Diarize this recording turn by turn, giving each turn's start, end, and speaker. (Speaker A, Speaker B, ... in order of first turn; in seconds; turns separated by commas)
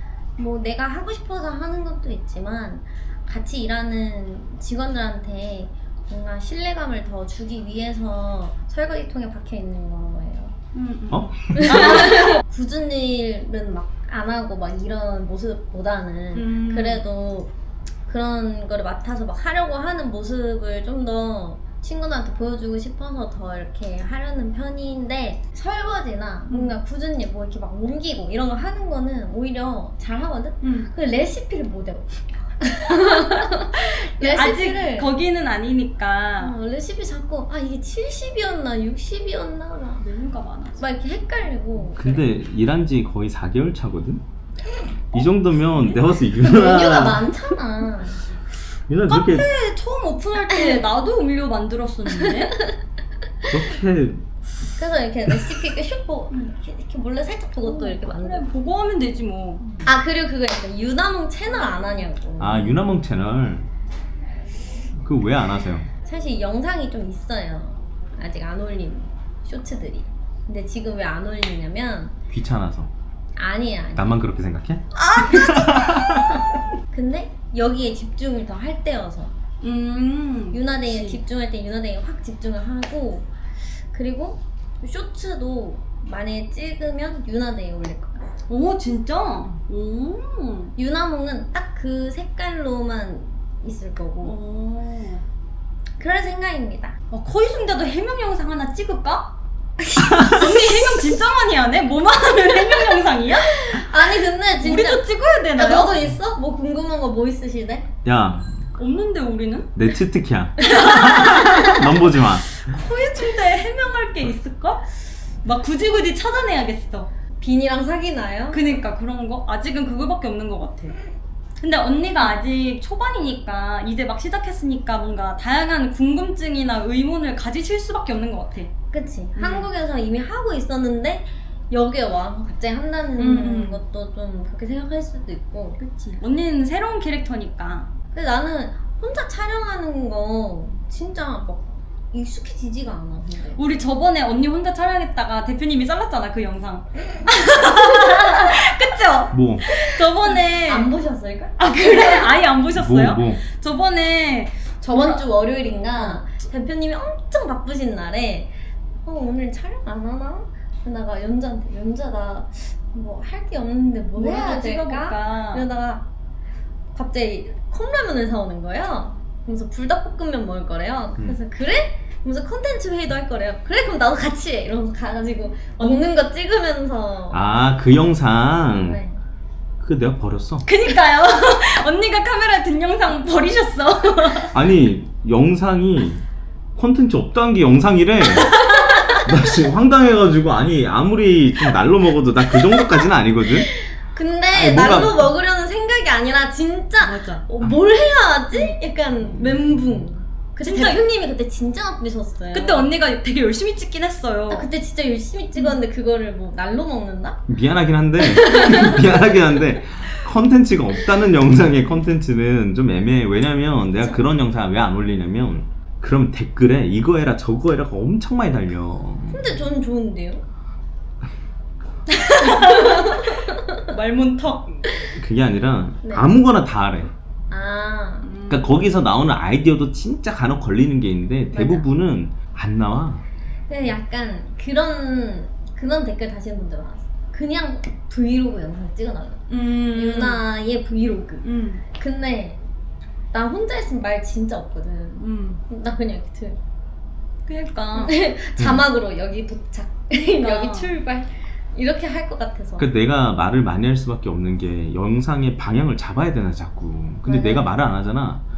Speaker A: 0.4-10.5, Speaker B: 10.7-12.4, Speaker C: 11.1-12.0, Speaker A: 11.5-17.5, Speaker B: 16.3-17.0, Speaker A: 18.1-35.1, Speaker B: 26.5-26.8, Speaker B: 30.6-30.9, Speaker B: 33.9-36.6, Speaker A: 36.4-40.0, Speaker B: 40.0-40.8, Speaker A: 40.8-42.2, Speaker C: 42.0-44.2, Speaker C: 45.1-47.3, Speaker B: 45.7-46.0, Speaker A: 46.4-48.2, Speaker C: 48.9-49.5, Speaker B: 49.0-52.6, Speaker A: 50.5-50.8, Speaker A: 52.1-52.8, Speaker C: 53.5-54.2, Speaker A: 54.8-58.5, Speaker B: 57.6-59.8, Speaker A: 59.8-62.8, Speaker C: 62.4-63.7, Speaker C: 65.0-65.9, Speaker A: 66.0-72.1, Speaker C: 72.3-72.9, Speaker A: 73.3-74.2, Speaker C: 73.9-76.4, Speaker B: 75.0-76.2, Speaker A: 76.9-79.3, Speaker B: 79.6-81.2, Speaker A: 80.5-83.3, Speaker A: 83.9-88.3, Speaker B: 88.5-90.7, Speaker A: 90.8-94.3, Speaker B: 94.2-95.2, Speaker A: 96.0-97.0, Speaker B: 97.1-99.3, Speaker A: 99.8-101.0, Speaker B: 100.2-103.9, Speaker A: 103.3-107.9, Speaker B: 104.6-106.0, Speaker C: 108.0-108.6, Speaker B: 108.8-109.7, Speaker C: 109.7-112.5, Speaker B: 110.6-114.9, Speaker B: 115.4-117.1, Speaker A: 117.4-118.7, Speaker B: 118.5-121.0, Speaker B: 121.6-128.7, Speaker A: 128.9-135.8, Speaker B: 129.3-129.7, Speaker B: 133.2-133.8, Speaker B: 135.8-137.9, Speaker A: 138.1-143.6, Speaker B: 143.5-150.9, Speaker A: 147.9-148.4, Speaker C: 149.3-149.6, Speaker A: 149.8-152.3, Speaker B: 151.6-155.2, Speaker C: 152.7-153.4, Speaker A: 154.8-158.5, Speaker B: 155.9-156.3, Speaker A: 159.0-166.1, Speaker B: 164.1-165.7, Speaker A: 166.9-177.6, Speaker B: 175.8-176.1, Speaker C: 177.3-179.0, Speaker A: 178.8-179.2, Speaker C: 179.8-180.7, Speaker B: 180.6-184.5, Speaker C: 184.5-186.2, Speaker C: 186.8-188.6, Speaker A: 188.5-189.2, Speaker C: 189.2-193.7, Speaker A: 193.7-202.9, Speaker C: 194.5-195.2, Speaker B: 197.0-197.4, Speaker B: 200.6-201.1, Speaker B: 202.5-204.7, Speaker A: 204.5-207.4, Speaker C: 207.5-219.6, Speaker A: 208.2-209.0, Speaker A: 219.3-220.4, Speaker B: 222.1-224.8, Speaker A: 222.1-223.8, Speaker C: 225.1-227.1, Speaker A: 226.0-226.3, Speaker A: 227.5-228.3, Speaker B: 228.2-228.8, Speaker C: 228.5-233.2, Speaker A: 231.5-231.9, Speaker A: 233.7-241.4, Speaker B: 239.5-240.4, Speaker B: 241.4-241.8, Speaker A: 241.9-242.6, Speaker A: 243.3-246.6, Speaker B: 245.2-245.6, Speaker B: 247.5-248.2, Speaker A: 247.9-252.9, Speaker C: 248.6-248.8, Speaker B: 250.4-251.0, Speaker C: 252.8-258.4, Speaker A: 257.2-257.7